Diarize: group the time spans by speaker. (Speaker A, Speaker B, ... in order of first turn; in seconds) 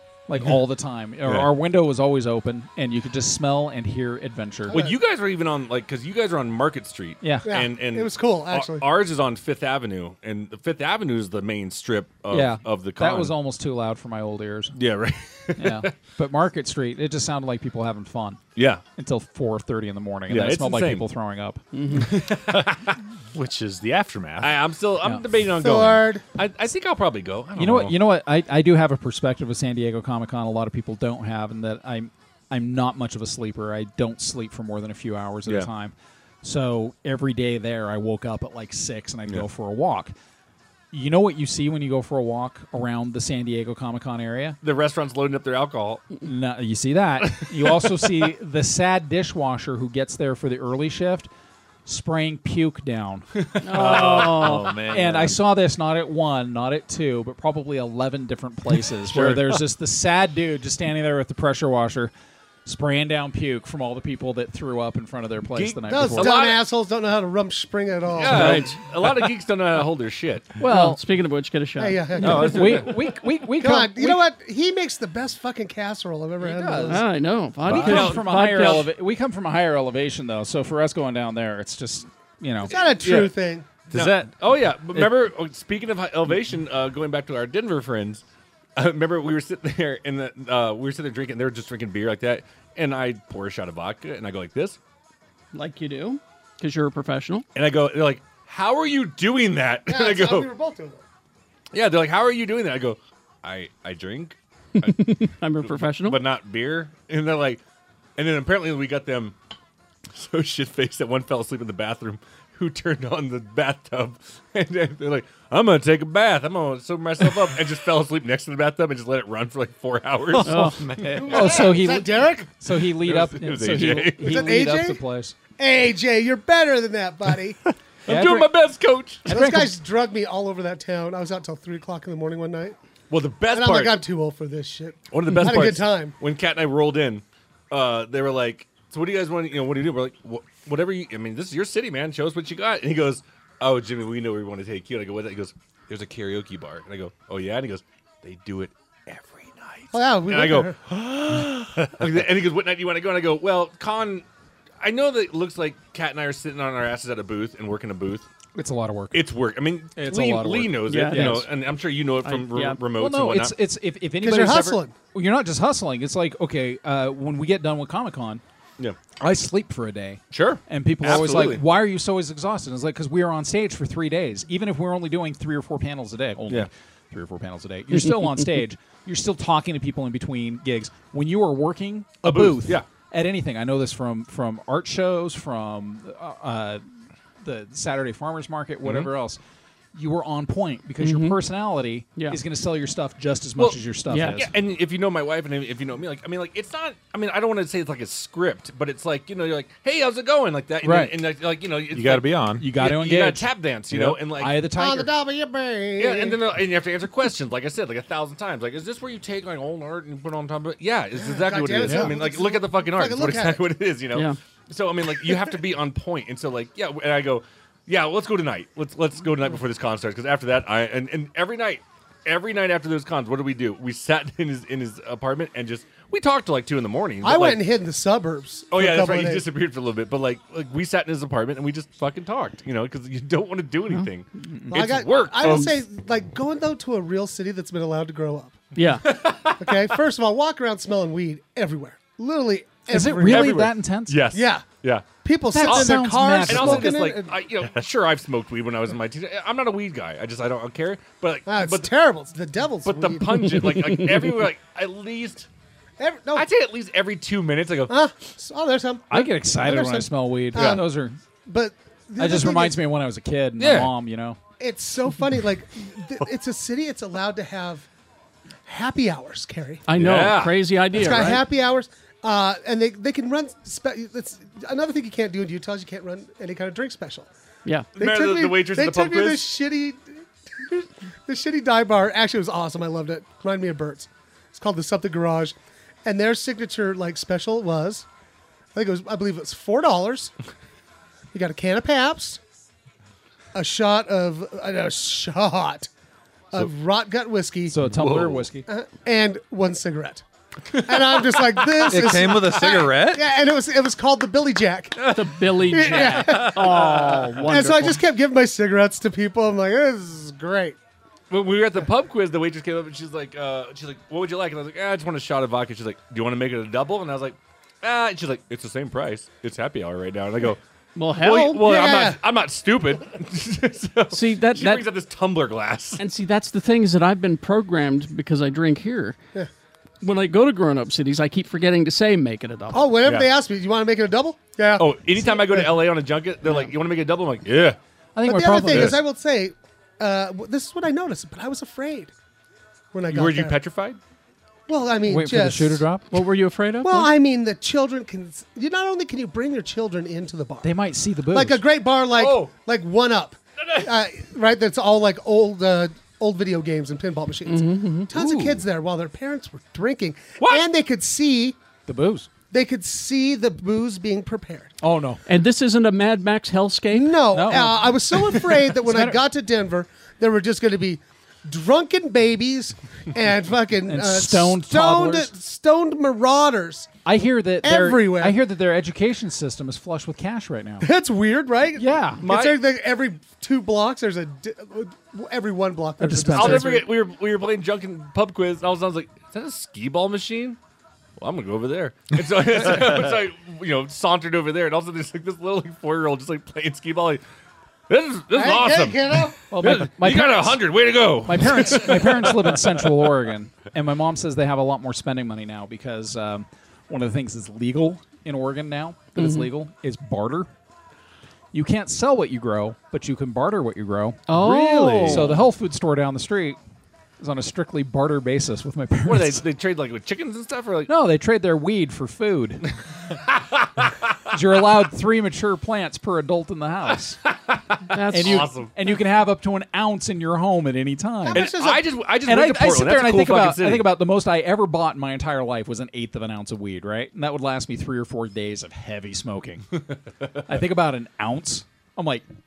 Speaker A: 0.3-4.8, 7.2-7.5, 12.3-14.7, 15.6-18.4, 19.0-21.6, 27.6-40.1, 40.9-44.6, 46.2-51.3, 51.8-53.3, 53.9-62.1, 62.6-66.3, 68.3-68.6, 70.6-71.0, 72.2-74.2, 76.4-77.1, 77.6-82.8, 83.9-84.3, 120.5-125.3, 128.1-128.5, 129.2-129.7, 158.6-159.2, 159.9-161.5, 162.9-168.4, 169.2-186.8, 187.4-189.4, 189.9-194.5, 200.8-201.1, 202.6-205.1, 211.8-212.1, 234.4-234.8, 242.9-244.2, 245.5-247.0, 259.1-261.2, 262.2-264.4, 297.6-298.6, 338.1-339.0, 345.1-346.1, 350.6-351.6, 358.1-358.6, 361.9-362.3, 364.8-365.2, 367.3-369.2, 373.8-375.3, 377.0-380.9, 381.7-382.2, 386.0-386.9, 399.5-410.5, 411.5-414.3, 415.0-416.6, 417.2-419.4, 420.9-422.6, 424.3-427.2, 428.1-431.5, 432.2-439.6, 440.5-442.3
Speaker B: 4.7-13.3, 14.7-15.9, 18.6-18.8, 20.3-21.0, 21.9-22.9, 24.4-27.9, 44.6-46.2, 47.3-47.9, 53.4-54.5, 59.1-59.6, 65.5-66.6, 68.1-70.6, 72.2-73.0, 77.7-78.9, 82.7-83.3, 83.9-88.2, 88.8-94.8, 97.5-100.5, 101.7-107.6, 108.2-109.3, 110.1-120.7, 123.0-124.4, 128.1-129.3, 133.1-134.0, 135.1-154.2, 154.8-158.3, 159.1-163.5, 170.3-171.6, 182.2-182.8, 188.8-189.1, 193.6-204.6, 206.0-227.6, 228.7-235.8, 239.0-239.9, 243.2-245.1, 245.6-251.9, 252.8-255.5, 256.3-257.9, 260.5-260.8, 263.6-263.9, 269.9-270.6, 278.0-279.5, 297.9-298.4, 300.7-302.1, 305.0-307.3, 311.3-320.6, 321.2-326.0, 334.8-337.8, 338.7-339.0, 343.1-344.0, 352.1-352.5, 360.4-360.6, 382.2-382.6, 386.3-390.6, 391.2-397.2, 397.9-402.7, 419.0-420.9, 423.3-423.7, 427.5-428.7, 431.3-433.9
Speaker C: 4.7-5.0, 7.4-8.8, 25.6-26.2, 65.9-68.6, 71.8-77.0, 82.6-83.7, 99.9-101.0, 121.1-122.5, 124.2-125.0, 125.6-127.6, 129.3-132.8, 133.5-136.1, 149.9-150.8, 164.2-164.9, 204.7-206.4, 211.1-213.6, 227.2-229.4, 234.7-238.6, 239.6-243.6, 244.3-244.6, 245.2-247.3, 251.4-253.8, 256.0-256.5, 257.9-260.9, 261.4-262.8, 264.6-267.9, 268.6-269.8, 270.9-277.3, 278.0-280.0, 280.6-288.1, 288.7-290.3, 291.3-292.4, 293.5-295.9, 296.5-297.8, 298.7-300.2, 300.8-305.0, 305.6-310.8, 321.2-322.2, 332.7-335.9, 338.2-342.1, 342.9-343.6, 344.7-345.8, 346.8-350.7, 351.3-361.6, 362.5-364.7, 366.9-376.9, 377.6-378.4, 380.8-386.9, 398.3-399.4, 431.2-431.8
Speaker D: 21.7-22.1, 53.6-54.7, 68.3-68.8, 70.6-72.0, 76.9-78.9, 95.5-97.4, 104.8-106.2, 120.4-120.8, 160.8-161.4, 162.2-162.8, 191.0-191.4, 194.1-194.4, 214.1-214.4, 238.7-239.1, 269.9-271.4, 305.1-308.0, 320.9-321.6, 324.1-324.9, 326.0-329.2, 330.0-332.9, 346.1-347.1, 357.5-358.1, 365.2-367.6, 409.1-409.5, 414.3-415.3, 427.9-428.4
Speaker E: 23.3-24.6, 53.7-55.3, 120.3-121.5, 201.9-202.7, 301.9-303.2, 414.4-415.3